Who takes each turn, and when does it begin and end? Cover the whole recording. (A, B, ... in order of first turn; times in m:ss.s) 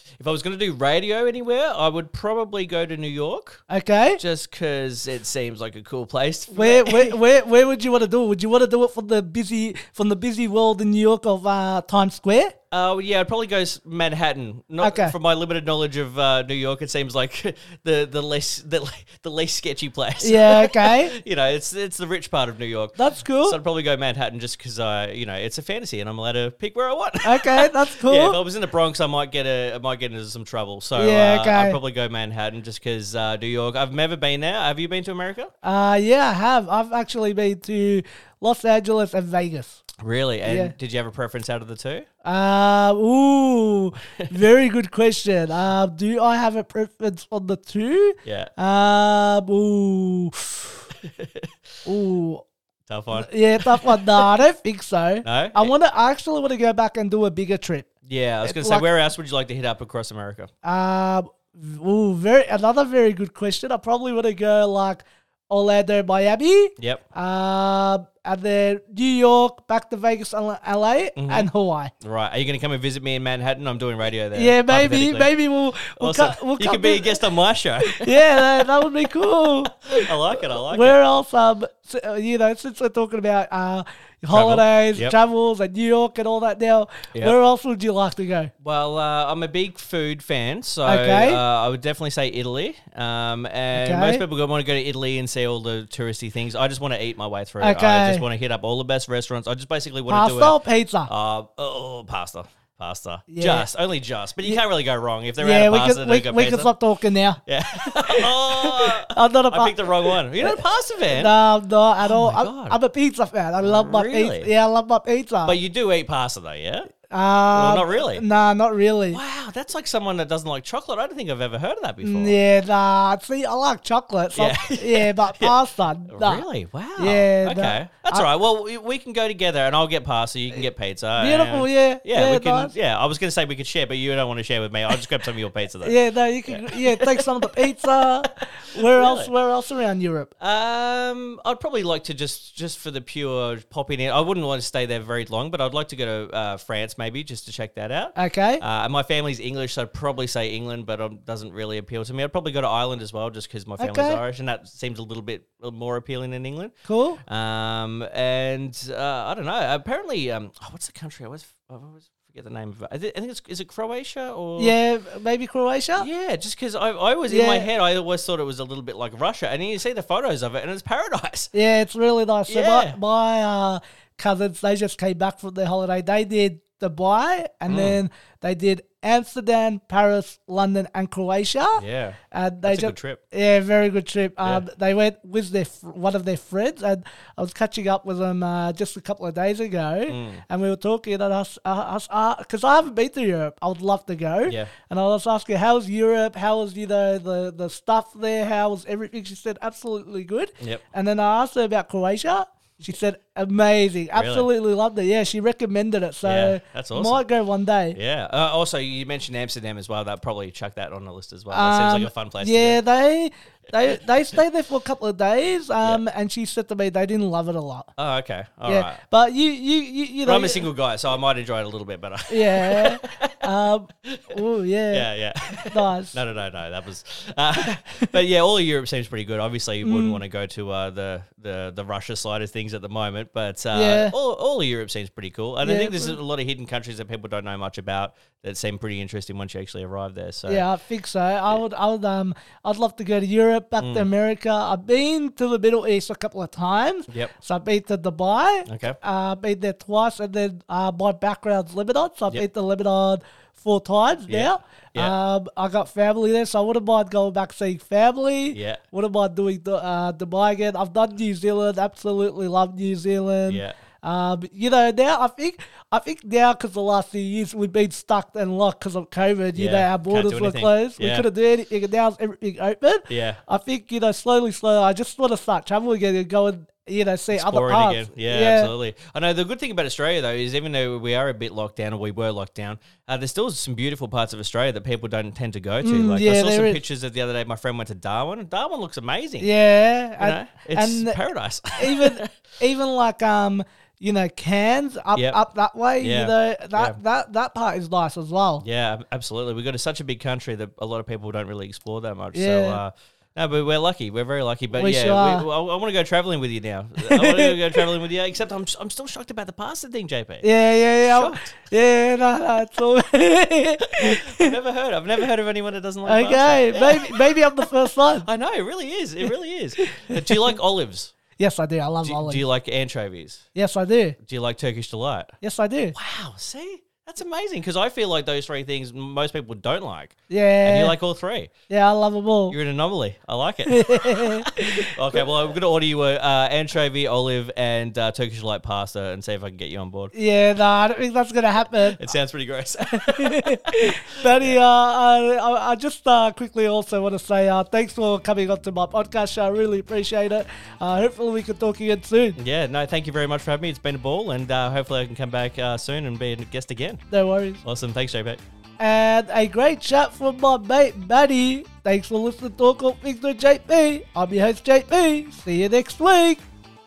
0:00.2-0:03.6 A
0:03.7-0:04.2 B
0:04.2-0:07.2 A
0:06.5-0:12.6 B
0:12.7-0:35.5 A
0:14.8-0:15.2 B
0:20.2-0:21.2 B
0:23.0-0:23.6 B
0:27.2-0:28.4 B
0:31.0-0:31.8 B
0:35.6-0:39.8 B
0:40.0-0:42.1 A
0:40.4-0:40.7 B
0:42.2-0:50.8 B
0:48.2-0:48.5 A
0:51.0-0:51.5 A
0:51.8-0:52.5 B
0:52.9-0:54.3 A
0:53.1-0:57.9 B
0:55.2-0:55.7 A
0:58.1-1:00.5 A
0:58.4-0:58.9 B
1:00.6-1:11.9 B
1:06.8-1:07.0 A
1:11.2-1:11.5 A
1:12.0-1:15.3 A
1:14.3-1:17.2 B
1:16.0-1:18.9 A
1:17.9-1:28.5 B
1:19.4-1:21.0 A
1:24.3-1:25.2 A
1:28.6-1:46.7 A
1:30.8-1:31.4 B
1:33.7-1:34.2 B
1:37.6-1:38.2 B
1:40.1-1:41.1 B
1:43.3-1:43.7 B
1:45.4-1:55.6 B
1:47.5-1:51.4 A
1:52.0-1:52.8 A
1:53.6-1:54.5 A
1:55.4-1:56.9 A
1:57.1-1:59.2 B
1:57.5-1:58.2 A
1:59.1-2:02.4 A
2:02.0-2:06.4 B
2:04.4-2:05.6 A
2:06.1-2:18.0 A
2:07.0-2:08.3 B
2:11.2-2:12.7 B
2:15.8-2:20.3 B
2:18.8-2:19.3 A
2:20.4-2:36.7 A
2:28.2-2:28.6 B
2:33.8-2:34.2 B
2:36.9-2:37.2 B
2:37.2-2:44.8 A
2:44.6-2:46.1 B
2:46.0-2:51.5 A
2:47.3-2:47.7 B
2:51.5-3:28.0 B
2:52.5-2:53.0 A
2:57.7-2:58.0 A
3:01.8-3:03.2 A
3:10.1-3:10.4 A
3:14.5-3:14.7 A
3:24.2-3:24.5 A
3:26.2-3:27.2 A
3:27.9-3:32.8 A
3:31.5-3:37.9 B
3:38.0-3:39.0 A
3:38.7-3:40.7 B
3:40.2-3:43.4 A
3:42.3-3:45.1 B
3:44.0-3:44.4 A
3:44.9-4:00.7 A
3:45.7-3:46.2 B
3:47.8-3:48.1 B
3:49.8-3:50.2 B
3:53.7-3:54.2 B
3:55.6-3:56.2 B
4:00.5-4:38.7 B
4:03.8-4:04.1 A
4:08.7-4:09.0 A
4:14.3-4:15.2 A
4:18.5-4:18.8 A
4:23.5-4:23.7 A
4:29.6-4:31.3 A
4:33.1-4:33.4 A
4:37.3-4:49.5 A
4:45.8-4:46.8 B
4:49.4-4:51.2 B
4:50.2-4:52.3 A
4:51.8-4:58.6 B
4:55.1-4:55.4 A
4:56.0-4:57.0 A
4:58.6-5:10.5 A
5:02.3-5:02.8 B
5:04.8-5:05.5 B
5:07.0-5:07.9 B
5:10.4-5:14.6 B
5:11.0-5:11.5 A
5:13.9-5:21.1 A
5:16.0-5:18.3 B
5:19.8-5:20.5 B
5:21.4-5:22.4 B
5:22.0-5:23.4 A
5:23.6-5:24.2 B
5:24.2-5:25.4 A
5:25.4-5:26.0 B
5:25.9-5:31.5 A
5:30.3-5:31.0 B
5:31.7-5:32.6 B
5:32.5-5:40.1 A
5:33.7-5:35.2 B
5:40.1-5:42.1 B
5:41.8-5:44.6 A
5:42.9-5:52.4 B
5:52.4-5:57.0 A
5:57.1-5:57.6 B
5:57.6-5:58.4 A
5:58.8-6:06.4 B